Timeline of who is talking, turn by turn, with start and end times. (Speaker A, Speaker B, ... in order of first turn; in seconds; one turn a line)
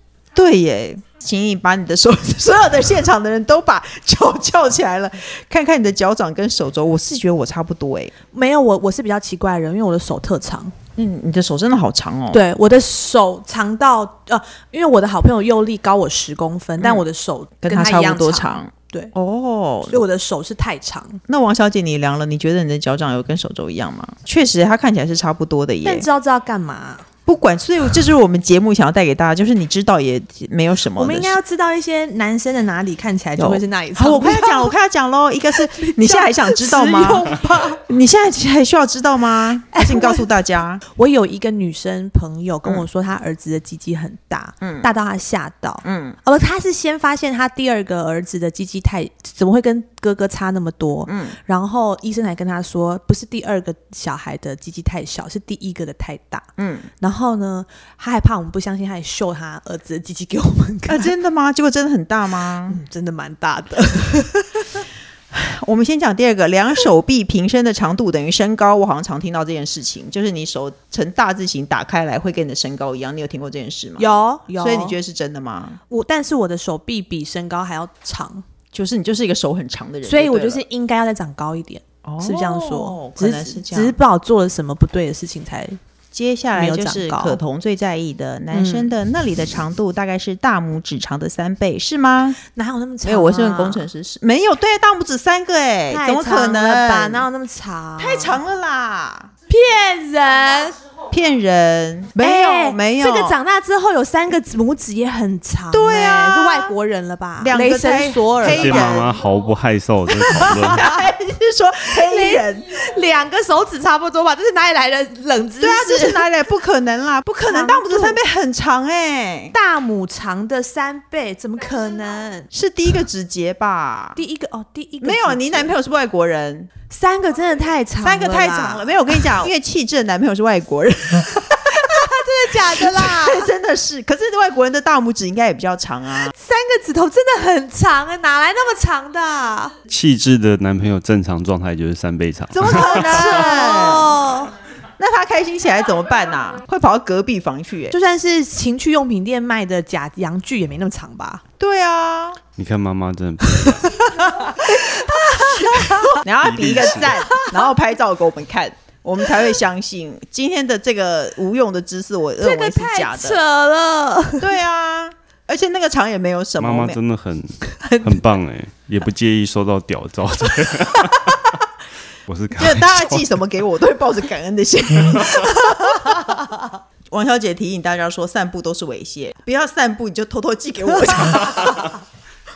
Speaker A: 0.3-8.1
Speaker B: 8.3-10.7
Speaker A: 11.0-12.4
Speaker B: 12.3-19.1
Speaker A: 16.8-17.0
Speaker A: 17.6-20.0
Speaker B: 19.9-21.2
Speaker A: 21.3-26.1
Speaker B: 25.8-27.1
Speaker A: 27.2-31.4
Speaker B: 30.9-34.7
Speaker A: 33.4-40.8
Speaker B: 35.5-37.8
Speaker B: 39.7-40.3
Speaker B: 40.8-56.5
Speaker A: 44.6-44.9
Speaker A: 45.8-46.2
Speaker A: 51.1-51.4
Speaker A: 56.6-56.9
Speaker B: 57.0-61.1
Speaker A: 60.9-62.8
Speaker B: 62.7-64.8
Speaker A: 65.3-75.8
Speaker B: 74.0-75.0
Speaker B: 75.9-78.4
Speaker A: 78.7-80.6
Speaker B: 80.0-85.8
Speaker A: 82.0-84.0
Speaker A: 86.1-92.4
Speaker B: 86.5-87.4
Speaker B: 88.5-88.9
Speaker B: 92.4-93.8
Speaker A: 93.0-97.2
Speaker B: 95.9-98.4
Speaker A: 98.0-99.3
Speaker B: 99.5-100.8
Speaker A: 101.1-103.3
Speaker B: 102.2-109.0
Speaker A: 105.7-106.7
Speaker A: 107.4-109.1
Speaker C: 108.4-110.8
Speaker B: 110.2-111.0
Speaker A: 110.7-112.7
Speaker B: 111.9-116.2
Speaker A: 115.6-119.5
Speaker B: 117.5-118.2
Speaker B: 119.5-122.5
Speaker A: 122.5-124.2
Speaker B: 124.2-125.7
Speaker A: 125.0-126.7
Speaker B: 126.9-129.5
Speaker A: 128.0-132.2
Speaker B: 131.6-133.5
Speaker A: 132.8-136.3
Speaker B: 136.3-139.7
Speaker C: 139.9-143.4
Speaker A: 142.5-144.1
Speaker B: 142.7-144.5
Speaker A: 145.0-147.9
Speaker B: 147.9-151.4
Speaker A: 151.6-152.4
Speaker C: 152.6-154.0
Speaker B: 153.6-156.2
Speaker A: 155.7-163.4
Speaker C: 156.4-157.1
Speaker B: 157.2-157.6
Speaker B: 162.4-164.5
Speaker A: 164.4-167.0
Speaker C: 166.6-171.6
Speaker B: 167.8-168.2
Speaker C: 172.3-173.3
Speaker A: 172.5-176.4
Speaker B: 175.7-176.3
Speaker A: 177.1-181.9
Speaker B: 181.0-181.8